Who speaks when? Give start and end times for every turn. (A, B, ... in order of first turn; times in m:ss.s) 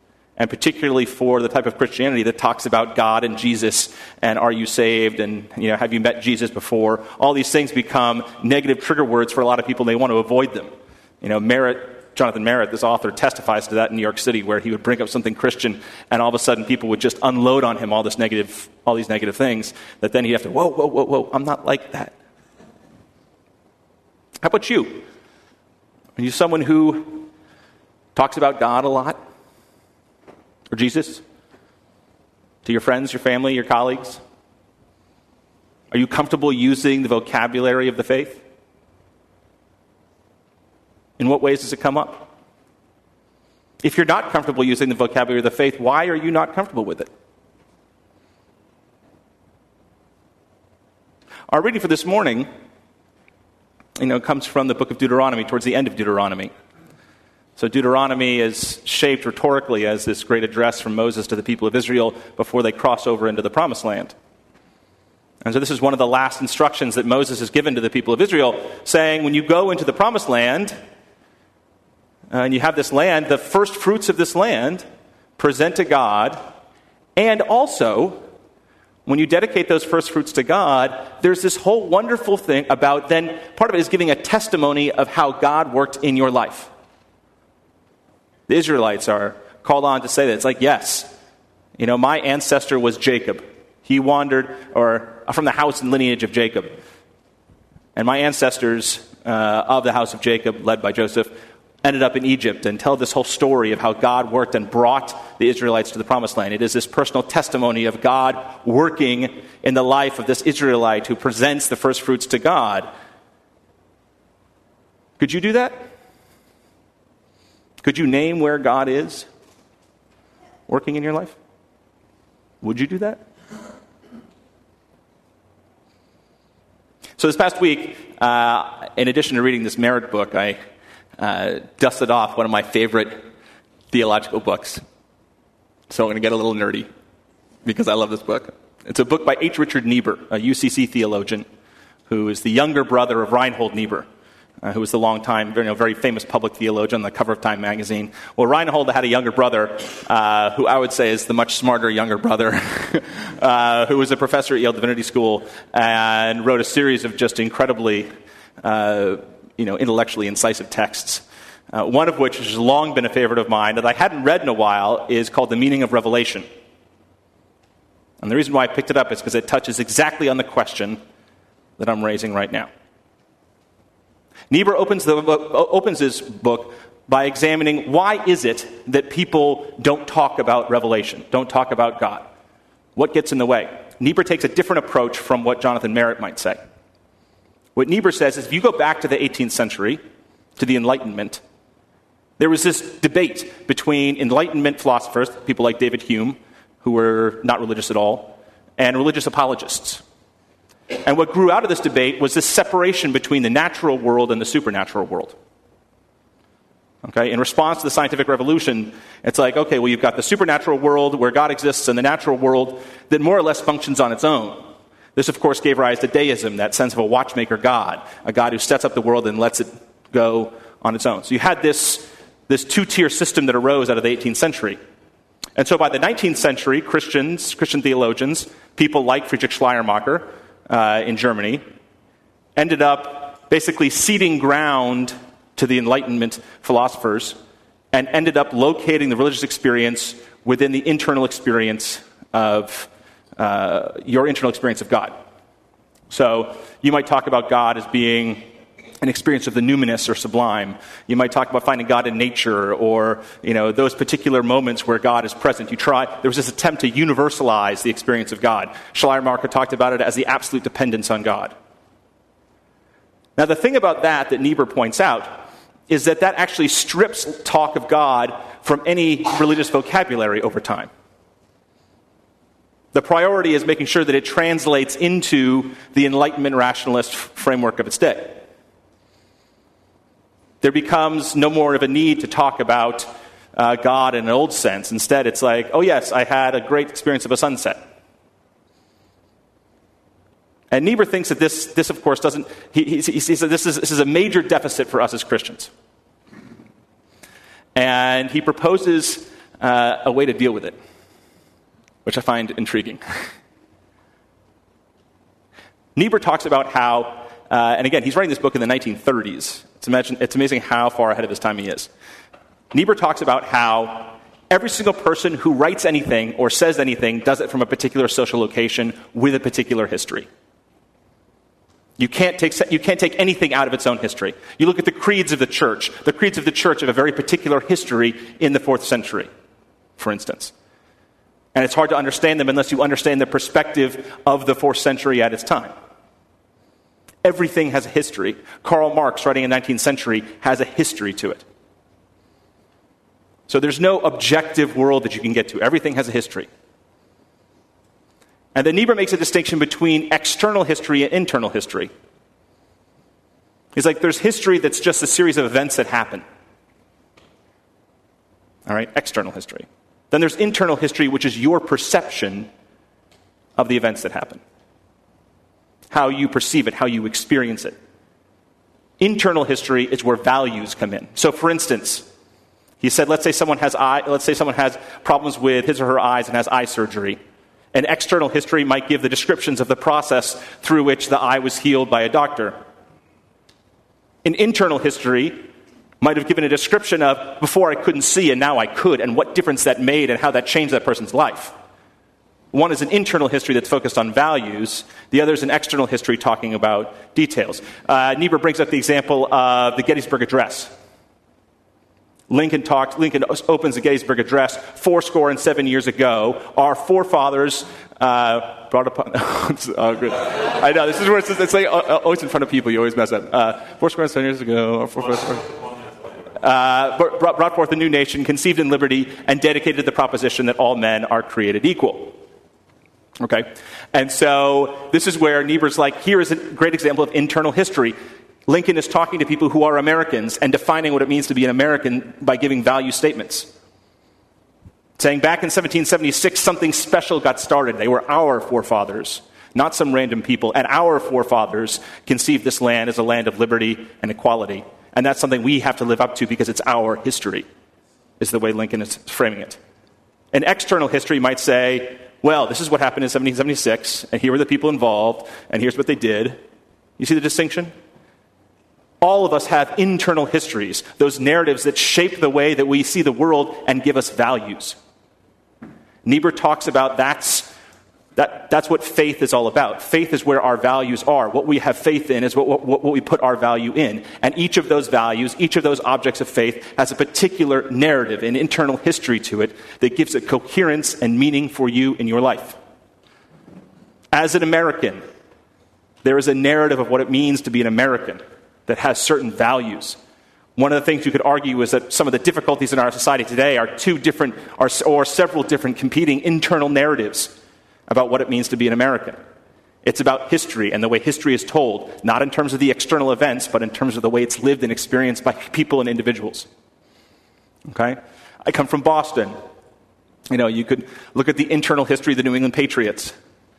0:00.4-0:10.7 A
0:11.2-0:22.1 A
0:24.4-0:25.0 A
0:26.2-0:27.3 A
0:28.1-0:29.2 A
0:30.7-0:31.2 A
0:32.6-0:34.2 A
0:35.9-0:38.4 A
0:41.2-0:42.3 A
0:43.8-0:47.1 A
0:51.5-0:52.5 A
0:54.0-0:56.5 A
0:57.6-1:04.1 A
1:05.4-1:10.8 A
1:12.3-1:14.8 A
1:15.4-1:16.4 A
1:17.2-1:18.2 A
1:19.0-1:26.7 A
1:28.5-1:31.1 A
1:31.8-1:36.8 A
1:38.0-1:52.9 A
1:55.2-1:55.9 A
1:57.8-1:59.3 A
2:00.7-2:01.4 A
2:02.6-2:03.2 A
2:07.2-2:10.6 A
2:11.2-2:13.2 A
2:13.9-2:14.8 A
2:15.9-2:16.9 A
2:17.6-2:21.4 A
2:22.1-2:24.1 A
2:24.6-2:38.1 A
2:38.6-2:46.5 A
2:48.2-2:51.0 A
2:51.8-2:52.7 A
2:54.5-3:02.3 A
3:03.0-3:06.6 A
3:07.8-3:10.0 A
3:10.6-3:11.4 A
3:12.4-3:20.0 A
3:21.0-3:25.3 A
3:27.0-3:34.6 A
3:35.2-3:44.8 A
3:45.6-3:51.6 A
3:52.6-3:57.4 A
3:57.9-4:05.1 A
4:06.1-4:08.4 A
4:09.0-4:21.5 A
4:23.4-4:25.3 A
4:25.9-4:30.9 A
4:32.9-4:38.4 A
4:40.6-4:47.8 A
4:50.7-4:55.7 A
4:57.8-5:00.8 A
5:02.0-5:03.0 A
5:06.0-5:11.9 A
5:12.7-5:20.3 A
5:22.0-5:29.3 A
5:30.0-5:30.5 A
5:31.5-5:35.7 A
5:37.2-5:41.4 A
5:43.5-5:46.5 A
5:48.5-5:51.9 A
5:53.8-5:56.2 A
5:58.7-6:02.5 A
6:03.6-6:04.4 A
6:05.9-6:07.8 A
6:09.0-6:12.0 A
6:12.8-6:17.2 A
6:17.7-6:22.5 A
6:24.2-6:25.4 A
6:26.0-6:31.5 A
6:32.5-6:40.7 A
6:42.3-6:55.5 A
6:56.4-7:02.2 A
7:03.2-7:08.0 A
7:08.5-7:13.5 A
7:15.0-7:27.4 A
7:28.2-7:29.6 A
7:30.3-7:36.4 A
7:37.0-7:37.7 A
7:39.0-7:44.8 A
7:46.0-7:47.5 A
7:48.2-8:02.6 A
8:04.1-8:05.0 A
8:06.0-8:10.0 A
8:10.6-8:17.3 A
8:17.9-8:19.2 A
8:19.8-8:26.5 A
8:27.7-8:29.3 A
8:30.3-8:33.1 A